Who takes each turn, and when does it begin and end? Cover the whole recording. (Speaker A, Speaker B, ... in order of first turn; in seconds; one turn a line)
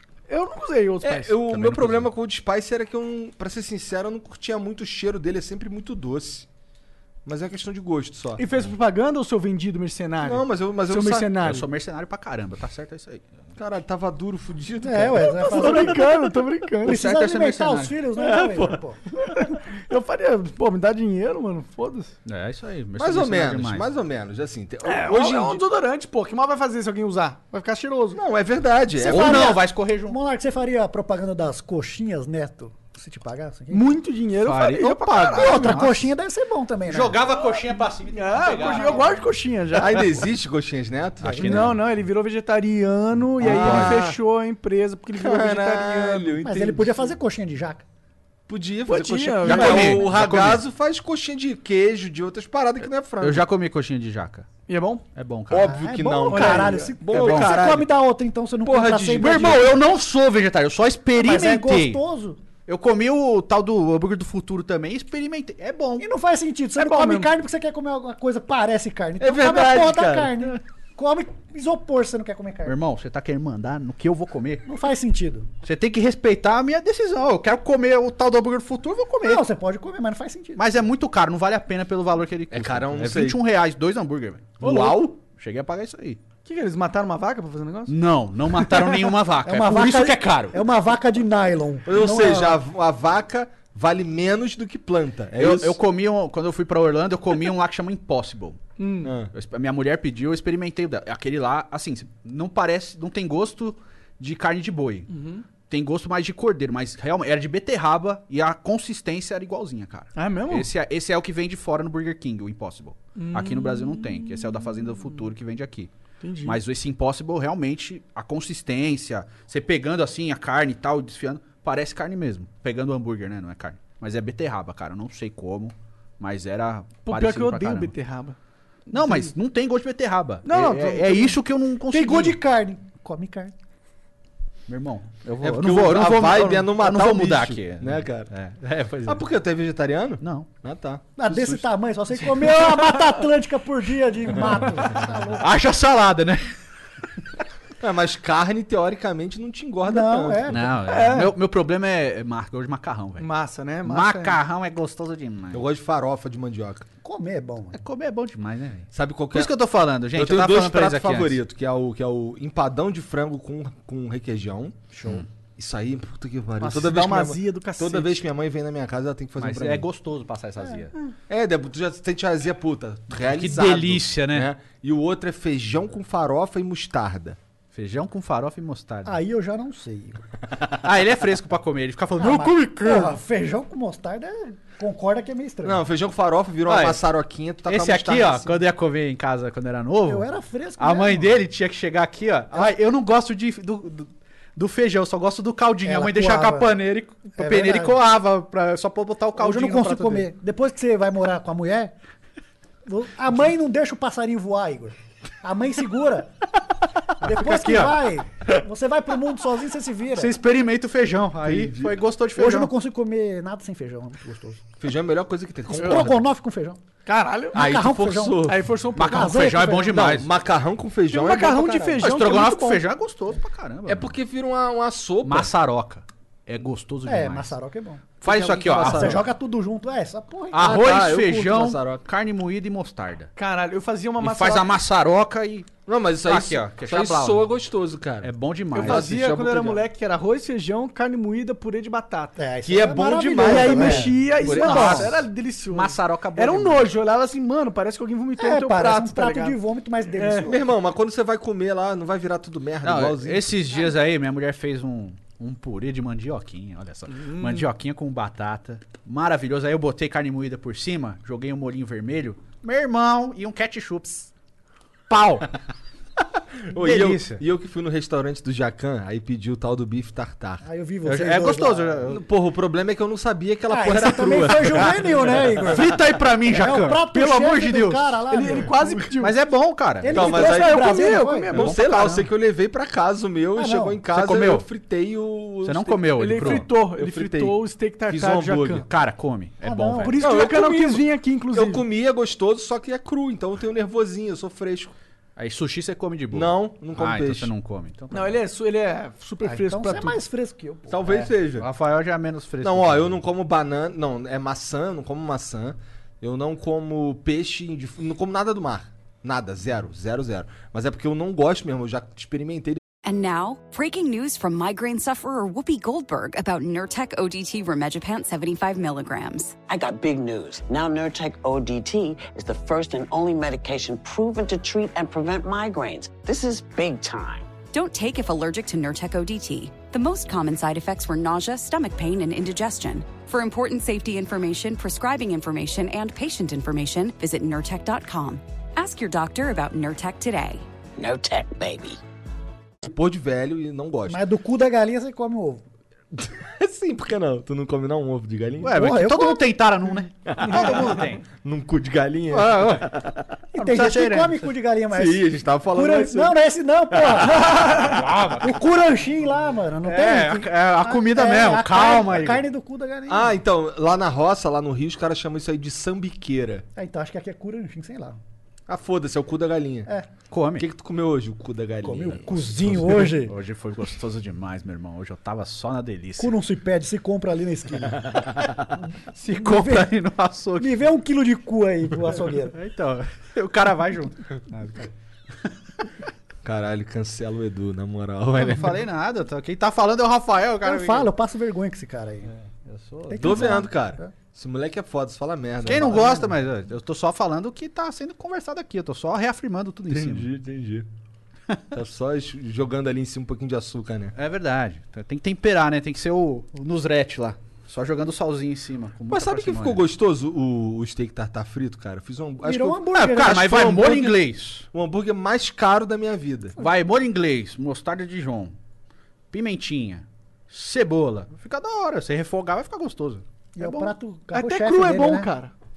Speaker A: 0.3-1.4
Speaker B: 1.0-6.5
Speaker C: 1.5-2.1
Speaker B: 7.2-8.4
Speaker A: 8.4-11.7
Speaker B: 10.2-11.6
Speaker C: 11.4-13.3
Speaker B: 13.6-16.2
Speaker D: 14.8-16.0
Speaker A: 15.3-17.0
Speaker D: 16.8-19.0
Speaker C: 16.8-17.9
Speaker B: 18.2-18.8
Speaker A: 19.4-22.1
Speaker C: 22.2-23.9
Speaker B: 23.0-25.6
Speaker A: 24.9-28.2
Speaker B: 28.1-29.6
Speaker D: 29.0-33.9
Speaker C: 29.0-30.2
Speaker A: 33.7-35.9
Speaker C: 34.4-36.1
Speaker D: 35.3-37.2
Speaker C: 36.9-39.2
Speaker A: 38.1-40.1
Speaker B: 39.7-41.7
Speaker C: 41.2-41.8
Speaker A: 41.4-46.4
Speaker C: 43.4-44.1
Speaker B: 43.4-44.2
Speaker B: 45.1-47.1
Speaker D: 46.4-47.8
Speaker B: 48.5-53.5
Speaker A: 48.9-50.1
Speaker C: 49.4-50.6
Speaker C: 53.2-54.5
Speaker A: 54.7-55.0
Speaker C: 55.1-55.7
Speaker B: 55.5-57.9
Speaker D: 55.6-59.7
Speaker A: 56.3-56.9
Speaker C: 57.1-57.8
Speaker B: 58.6-59.8
Speaker C: 59.2-62.0
Speaker D: 61.1-62.4
Speaker C: 62.7-66.0
Speaker D: 66.0-72.8
Speaker A: 66.8-67.3
Speaker B: 69.2-70.5
Speaker C: 72.7-74.7
Speaker D: 74.7-75.5
Speaker C: 75.6-79.4
Speaker D: 79.2-80.6
Speaker C: 80.6-86.2
Speaker B: 82.5-83.4
Speaker A: 84.6-85.1
Speaker A: 86.4-87.9
Speaker C: 87.9-90.6
Speaker A: 88.5-89.1
Speaker D: 89.5-92.6
Speaker B: 91.8-95.8
Speaker C: 95.4-98.6
Speaker A: 98.8-99.1
Speaker B: 99.0-99.3
Speaker C: 99.3-105.1
Speaker A: 105.1-105.4
Speaker C: 105.7-115.9
Speaker A: 110.2-110.7
Speaker A: 113.2-114.8
Speaker A: 116.2-116.6
Speaker C: 116.4-127.9
Speaker A: 127.0-128.3
Speaker A: 128.9-129.3
Speaker C: 128.9-132.4
Speaker A: 130.4-131.3
Speaker D: 131.9-133.5
Speaker C: 134.7-139.2
Speaker B: 135.4-138.3
Speaker B: 139.0-141.6
Speaker C: 140.2-140.5
Speaker D: 141.2-145.5
Speaker C: 145.4-146.5
Speaker B: 147.8-150.7
Speaker D: 149.8-150.7
Speaker C: 150.5-153.3
Speaker A: 150.9-151.3
Speaker A: 153.2-154.4
Speaker C: 153.8-155.6
Speaker B: 155.5-156.8
Speaker D: 157.0-157.8
Speaker C: 157.7-161.4
Speaker B: 158.9-159.5
Speaker B: 160.1-164.9
Speaker D: 164.9-165.2
Speaker B: 165.6-169.9
Speaker A: 166.6-168.1
Speaker C: 169.4-170.9
Speaker B: 171.3-177.4
Speaker C: 173.2-174.5
Speaker C: 177.7-179.2
Speaker D: 179.0-180.2
Speaker C: 180.8-183.2
Speaker D: 182.2-185.8
Speaker B: 185.6-188.6
Speaker C: 186.7-187.0
Speaker C: 187.7-190.3
Speaker D: 190.1-191.4
Speaker C: 190.8-200.3
Speaker D: 195.8-196.7
Speaker D: 197.4-198.0
Speaker D: 199.4-201.9
Speaker D: 202.8-206.3
Speaker D: 207.2-210.3
Speaker C: 207.2-208.1
Speaker C: 210.2-212.7
Speaker B: 211.4-212.0
Speaker D: 212.3-214.6
Speaker B: 214.8-216.2
Speaker D: 215.7-216.8
Speaker A: 215.8-216.1
Speaker A: 217.1-217.7
Speaker B: 217.5-218.7
Speaker D: 217.5-220.1
Speaker A: 218.4-219.4
Speaker C: 218.9-220.3
Speaker B: 219.9-222.0
Speaker A: 221.1-222.8
Speaker D: 221.5-222.0
Speaker C: 222.0-224.1
Speaker B: 223.8-225.5
Speaker C: 225.2-227.5
Speaker D: 227.1-228.0
Speaker B: 228.2-229.2
Speaker C: 228.2-229.2
Speaker D: 228.8-230.8
Speaker C: 230.5-233.3
Speaker B: 230.6-232.0
Speaker A: 233.4-234.7
Speaker C: 234.2-235.7
Speaker B: 235.9-239.2
Speaker C: 236.2-237.4
Speaker C: 238.2-239.8
Speaker A: 238.7-242.3
Speaker D: 242.3-245.1
Speaker B: 242.6-244.2
Speaker A: 243.4-249.6
Speaker C: 244.4-246.9
Speaker D: 248.4-250.6
Speaker A: 250.2-250.5
Speaker B: 250.4-253.6
Speaker C: 252.8-264.3
Speaker A: 257.1-257.6
Speaker C: 265.1-265.5
Speaker B: 266.7-270.6
Speaker C: 266.7-267.4
Speaker D: 270.6-272.0
Speaker C: 271.0-272.2
Speaker B: 272.1-276.0
Speaker D: 273.7-275.9
Speaker C: 274.3-274.9
Speaker C: 275.7-278.1
Speaker D: 276.4-279.0
Speaker A: 278.3-279.3
Speaker C: 279.2-280.3
Speaker D: 280.0-281.6
Speaker B: 280.1-288.9
Speaker A: 280.1-282.2
Speaker D: 283.6-284.0
Speaker C: 284.1-284.6
Speaker C: 285.6-286.7
Speaker A: 286.2-288.9
Speaker C: 288.9-290.2
Speaker D: 289.6-290.2
Speaker A: 290.0-291.8
Speaker B: 290.2-294.9
Speaker C: 295.4-298.4
Speaker B: 296.3-297.5
Speaker A: 298.1-300.2
Speaker D: 299.4-301.0
Speaker B: 300.9-301.7
Speaker C: 301.1-303.1
Speaker B: 302.6-312.8
Speaker E: 313.0-319.6
Speaker F: 319.7-327.5
Speaker E: 327.7-340.6
Speaker F: 341.0-342.0
Speaker B: 342.8-344.2
Speaker D: 344.1-345.6
Speaker B: 346.1-348.8
Speaker C: 348.6-351.2
Speaker D: 348.8-349.4
Speaker B: 350.3-353.2
Speaker A: 350.5-350.9
Speaker C: 352.3-352.9
Speaker D: 353.5-357.8
Speaker C: 353.5-354.4
Speaker B: 354.9-356.4
Speaker B: 356.9-357.9
Speaker C: 357.7-358.6
Speaker D: 358.4-363.3
Speaker C: 359.8-362.4
Speaker B: 363.1-366.6
Speaker D: 366.8-368.2
Speaker B: 368.7-369.9
Speaker C: 370.3-370.7
Speaker B: 370.6-373.1
Speaker D: 371.8-373.3
Speaker C: 372.9-376.4
Speaker D: 376.2-378.2
Speaker C: 379.1-380.9
Speaker D: 379.3-379.9
Speaker D: 380.6-382.6
Speaker C: 382.5-384.9
Speaker B: 386.4-388.8
Speaker C: 388.4-391.1
Speaker D: 390.6-392.3
Speaker C: 392.5-393.6
Speaker D: 393.1-394.1
Speaker B: 393.2-396.1
Speaker D: 395.6-396.3
Speaker C: 395.6-400.3
Speaker B: 399.9-400.9
Speaker B: 401.7-404.1
Speaker C: 404.1-409.8
Speaker B: 409.1-414.2
Speaker D: 412.4-413.7
Speaker C: 412.9-414.6
Speaker B: 414.7-416.6
Speaker C: 416.6-418.5
Speaker C: 419.3-423.9
Speaker D: 423.6-425.3
Speaker A: 424.3-425.5